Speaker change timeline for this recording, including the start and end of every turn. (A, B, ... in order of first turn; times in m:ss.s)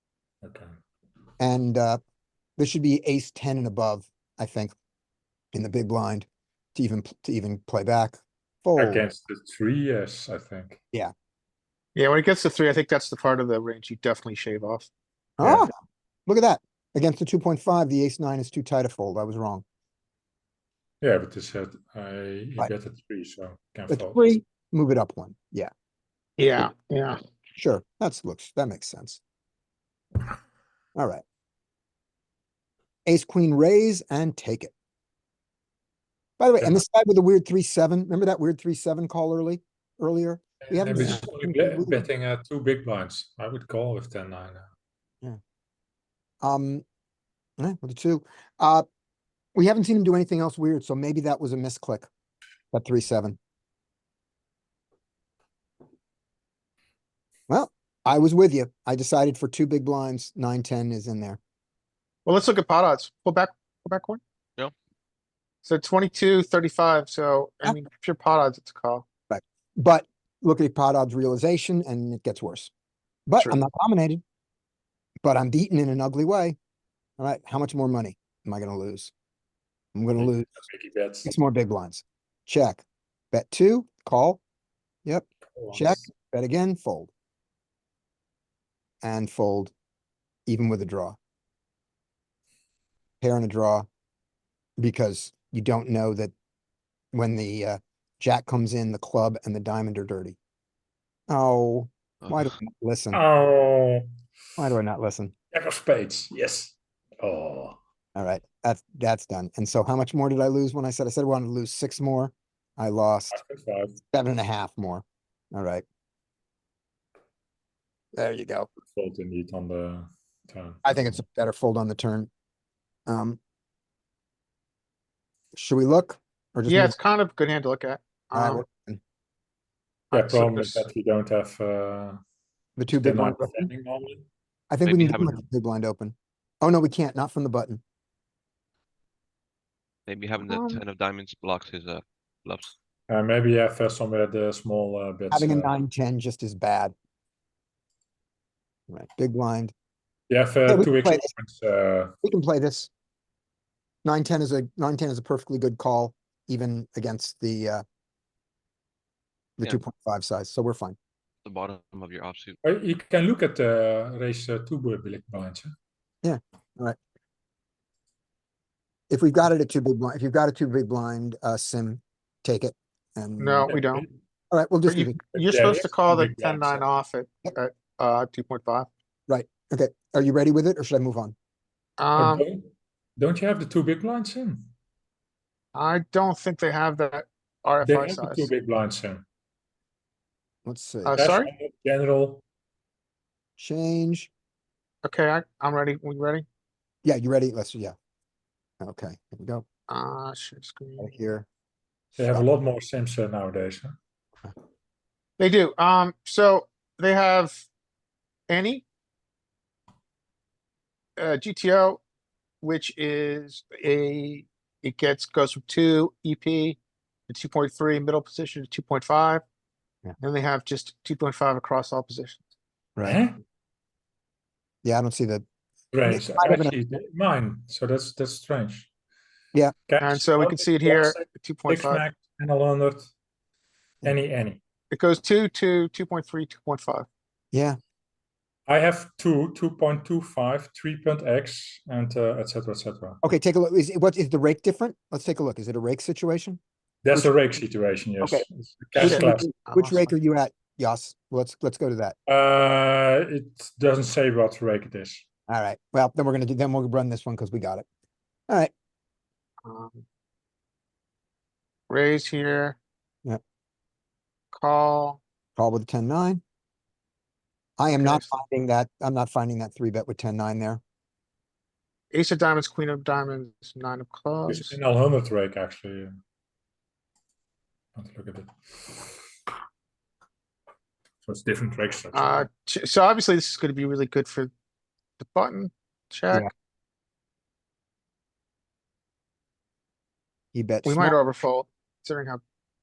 0:00.4-0:00.7 A
0:01.4-0:02.0 B
0:02.6-0:04.7 B
0:05.5-0:09.1 B
0:08.8-0:10.8 A
0:11.9-0:14.9 C
0:15.4-0:15.7 B
0:16.3-0:19.6 B
0:21.0-0:24.2 A
0:23.9-0:25.7 B
0:26.4-0:27.2 C
0:27.6-0:29.2 B
0:31.0-0:31.2 B
0:33.0-0:34.7 B
0:36.4-0:42.0 B
0:36.6-0:36.8 A
0:40.6-0:44.7 A
0:46.4-0:46.8 B
0:47.6-0:48.9 B
0:49.5-0:52.1 B
0:52.7-0:53.4 B
0:57.5-1:01.4 B
1:02.2-1:04.2 C
1:05.6-1:09.0 C
1:09.3-1:12.7 B
1:13.3-1:14.2 B
1:15.2-1:16.6 B
1:17.2-1:19.1 B
1:19.9-1:20.5 B
1:20.2-1:21.3 A
1:21.2-1:24.4 B
1:25.0-1:27.1 B
1:25.6-1:26.0 A
1:29.0-1:29.7 B
1:30.5-1:31.2 B
1:33.2-1:33.9 B
1:34.8-1:36.3 B
1:37.1-1:40.4 B
1:41.3-1:43.2 B
1:43.1-1:44.1 A
1:44.6-1:45.3 B
1:45.5-1:47.8 A
1:48.2-1:53.4 B
1:53.3-1:54.0 A
1:54.1-1:55.8 B
1:58.1-1:58.7 B
1:58.8-2:01.2 A
2:00.8-2:02.3 B
2:03.1-2:03.4 B
2:05.5-2:07.0 B
2:06.7-2:08.6 C
2:08.3-2:09.0 B
2:10.1-2:10.8 C
2:10.1-2:12.2 A
2:12.8-2:13.7 B
2:12.9-2:14.3 A
2:14.7-2:17.8 B
2:14.9-2:15.4 D
2:20.1-2:22.7 D
2:20.5-2:20.8 C
2:23.1-2:25.7 A
2:25.3-2:26.9 B
2:28.9-2:29.7 B
2:30.3-2:32.1 A
2:30.7-2:31.3 B
2:32.2-2:32.9 B
2:34.0-2:37.8 B
2:39.6-2:41.0 B
2:41.4-2:42.6 D
2:42.6-2:45.7 A
2:46.2-2:47.0 B
2:49.1-2:53.8 B
2:53.4-2:54.0 C
2:53.7-2:54.1 A
2:54.5-2:55.2 B
2:54.9-2:58.9 C
2:55.3-2:56.8 A
2:59.3-3:01.3 B
3:02.0-3:02.4 C
3:02.2-3:04.7 A
3:05.7-3:08.5 C
3:07.8-3:09.2 A
3:10.6-3:11.2 B
3:11.0-3:11.5 C
3:11.2-3:12.4 A
3:13.6-3:14.3 B
3:15.0-3:16.4 C
3:17.0-3:17.9 B
3:18.8-3:19.6 B
3:19.9-3:21.1 C
3:21.0-3:21.4 B
3:22.2-3:23.9 A
3:22.2-3:22.4 B
3:25.4-3:27.6 C
3:28.5-3:28.8 C
3:31.2-3:32.0 C
3:32.6-3:36.8 C
3:37.3-3:39.4 C
3:40.2-3:42.5 C
3:43.0-3:43.4 A
3:44.8-3:45.4 B
3:45.9-3:48.9 A
3:46.0-3:46.8 B
3:49.9-3:53.1 A
3:50.0-3:52.0 C
3:54.0-3:54.6 A
3:54.9-3:57.1 C
3:57.5-3:57.8 B
3:58.7-4:03.2 A
4:03.2-4:06.6 B
4:07.0-4:09.5 A
4:09.0-4:12.2 B
4:09.0-4:10.1 C
4:12.3-4:15.2 A
4:15.5-4:17.8 B
4:19.6-4:20.0 C
4:21.9-4:22.8 C
4:24.5-4:25.2 C
4:25.6-4:26.4 B
4:27.8-4:30.8 B
4:28.0-4:28.3 C
4:32.1-4:34.7 C
4:34.5-4:36.1 A
4:38.0-4:39.1 A
4:41.2-4:42.5 A
4:42.1-4:44.5 C
4:45.2-4:46.5 C
4:50.5-4:51.2 B
4:50.8-4:52.4 C